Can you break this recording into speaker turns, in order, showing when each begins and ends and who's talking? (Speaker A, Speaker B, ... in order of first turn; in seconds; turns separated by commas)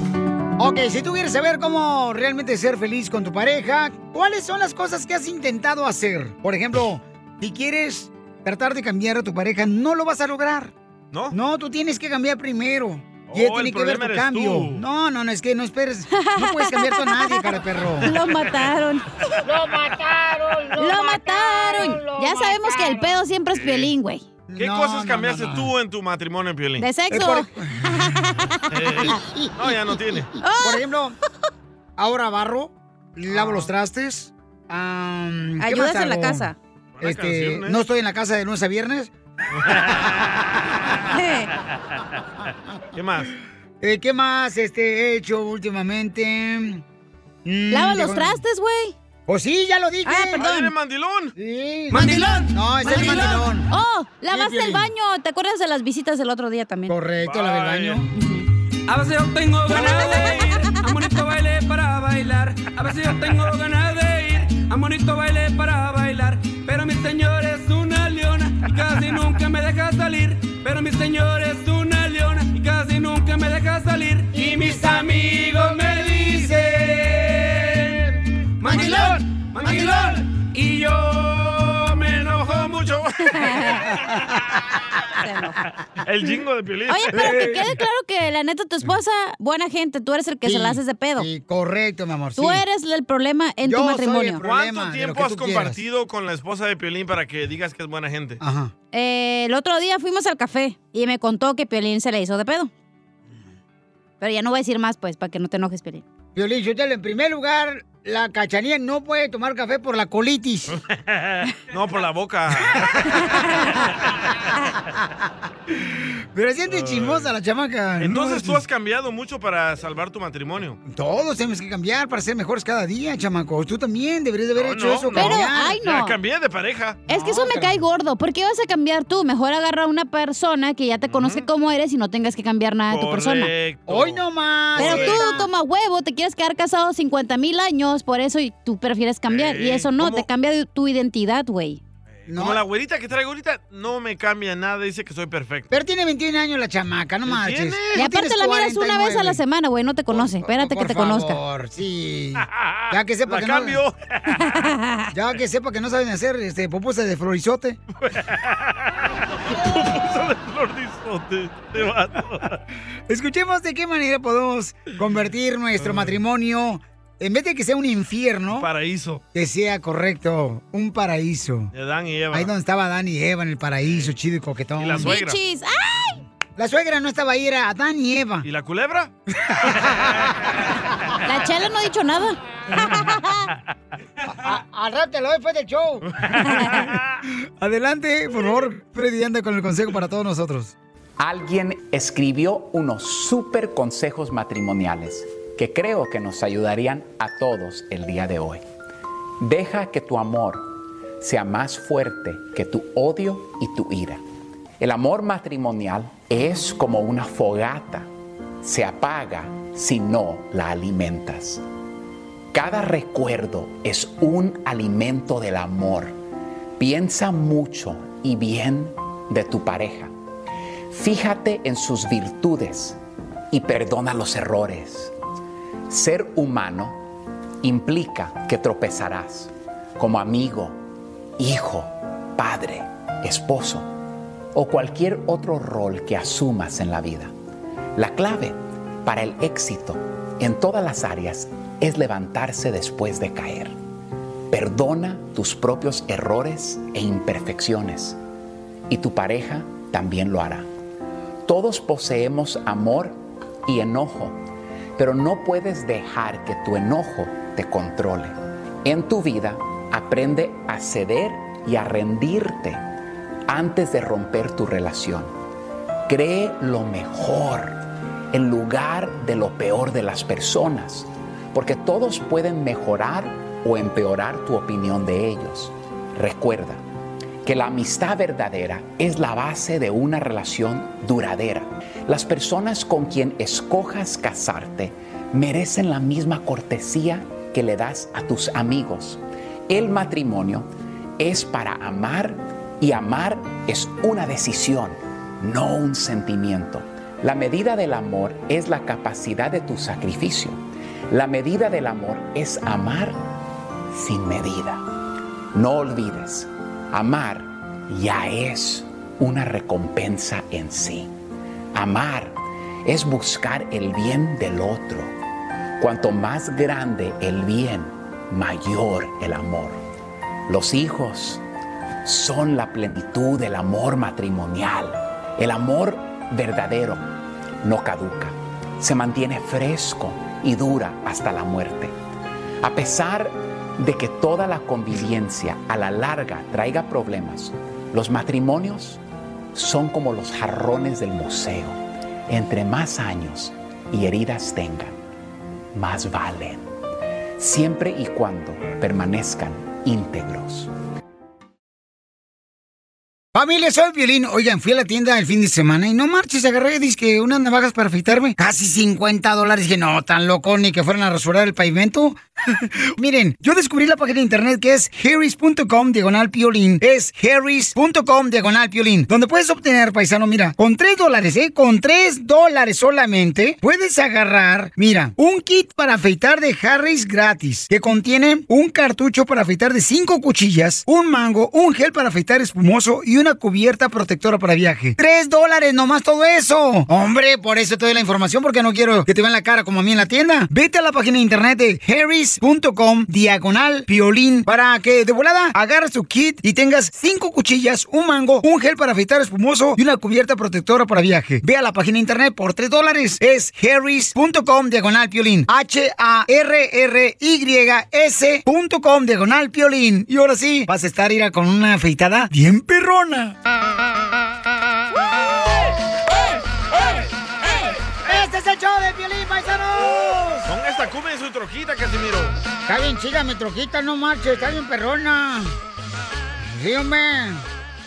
Speaker A: 0.6-10.7, Speaker A: 11.3-18.1, Speaker B: 13.3-14.8, Speaker C: 16.1-19.4, Speaker A: 19.5-22.9, Speaker C: 20.8-24.2, Speaker B: 23.6-23.9, Speaker A: 24.5-25.7, Speaker B: 24.6-26.9, Speaker C: 26.8-29.1, Speaker A: 27.1-28.2, Speaker B: 28.7-30.3, Speaker A: 29.0-29.6, Speaker C: 30.4-30.9, Speaker A: 30.6-31.2, Speaker A: 32.0-36.5, Speaker B: 33.3-33.7, Speaker C: 35.6-36.6, Speaker B: 37.0-37.8, Speaker A: 37.0-39.1, Speaker B: 39.6-41.0, Speaker A: 39.7-40.1, Speaker C: 41.1-41.5, Speaker B: 42.9-43.3, Speaker A: 43.8-46.8, Speaker A: 47.5-48.4, Speaker C: 47.7-48.9, Speaker A: 49.3-50.4, Speaker C: 50.1-50.7, Speaker B: 50.4-51.3, Speaker A: 51.4-53.7, Speaker D: 51.9-52.7, Speaker C: 52.8-57.0, Speaker A: 54.3-54.9, Speaker A: 56.9-58.1, Speaker B: 57.2-58.0, Speaker C: 58.1-58.5, Speaker D: 58.9-82.7, Speaker C: 59.7-60.7, Speaker A: 74.3-75.1, Speaker A: 76.2-76.6, Speaker A: 78.7-79.1, Speaker A: 79.6-80.1, Speaker B: 82.4-83.9, Speaker C: 83.3-83.9, Speaker A: 83.9-84.4, Speaker C: 85.2-85.6, Speaker B: 86.0-87.6, Speaker C: 86.9-91.3, Speaker A: 87.1-87.6, Speaker A: 90.4-92.6, Speaker C: 92.4-94.4, Speaker A: 93.6-95.8, Speaker B: 94.4-98.4, Speaker A: 98.4-98.7, Speaker C: 98.9-102.7, Speaker C: 104.2-106.0, Speaker A: 106.4-110.8, Speaker B: 110.8-113.4, Speaker A: 112.7-113.2, Speaker A: 115.7-118.6, Speaker B: 116.7-117.3, Speaker B: 118.0-120.8, Speaker A: 120.9-125.8, Speaker B: 124.6-127.0, Speaker C: 125.2-126.2, Speaker A: 127.1-127.8, Speaker C: 127.1-133.5, Speaker B: 131.1-131.5, Speaker B: 132.9-134.2, Speaker A: 133.9-135.5, Speaker B: 134.8-135.3, Speaker C: 134.8-141.8, Speaker B: 139.3-140.3, Speaker B: 142.2-145.7, Speaker A: 142.3-142.6, Speaker A: 145.7-149.4, Speaker B: 147.3-148.1, Speaker C: 147.9-151.4, Speaker A: 150.1-153.8, Speaker B: 152.4-154.6, Speaker C: 154.4-155.1, Speaker A: 155.1-157.8, Speaker B: 158.0-162.6, Speaker A: 163.1-168.7, Speaker B: 165.8-166.2, Speaker B: 168.5-169.2, Speaker A: 169.3-171.7, Speaker B: 171.7-172.5, Speaker A: 172.3-175.1, Speaker B: 173.8-174.1, Speaker B: 174.8-175.4, Speaker C: 175.0-176.2, Speaker A: 176.6-178.5, Speaker B: 178.4-179.1, Speaker A: 179.4-181.2, Speaker B: 179.7-180.5, Speaker C: 181.2-182.4, Speaker A: 182.7-183.0, Speaker C: 182.9-183.5, Speaker A: 184.2-187.0, Speaker B: 186.3-187.2, Speaker A: 187.6-190.8, Speaker E: 191.2-198.6, Speaker E: 199.4-204.2, Speaker E: 204.8-208.1, Speaker E: 208.6-211.6, Speaker E: 212.5-216.2, Speaker E: 216.8-220.1, Speaker E: 220.9-223.0, Speaker E: 223.5-225.1, Speaker E: 225.9-227.0, Speaker E: 227.6-230.8, Speaker E: 231.4-233.9, Speaker E: 234.5-237.3, Speaker E: 238.0-243.8, Speaker E: 244.5-248.2, Speaker E: 248.9-250.7, Speaker E: 251.4-254.4, Speaker E: 255.0-262.8, Speaker E: 263.5-265.3, Speaker E: 266.1-267.8, Speaker E: 268.3-276.8, Speaker E: 277.4-290.7, Speaker E: 291.2-300.6, Speaker E: 301.1-303.2, Speaker E: 303.9-304.8, Speaker E: 305.5-311.1, Speaker E: 311.7-315.1, Speaker E: 315.8-319.8, Speaker E: 320.5-321.4, Speaker E: 322.0-327.1, Speaker E: 327.6-331.9, Speaker E: 332.6-339.0, Speaker E: 339.5-345.0, Speaker E: 345.7-346.7, Speaker E: 347.4-350.7, Speaker A: 353.3-413.4, Speaker C: 416.1-417.8, Speaker A: 418.1-420.5, Speaker B: 420.5-422.4, Speaker A: 422.7-425.5, Speaker A: 426.4-427.5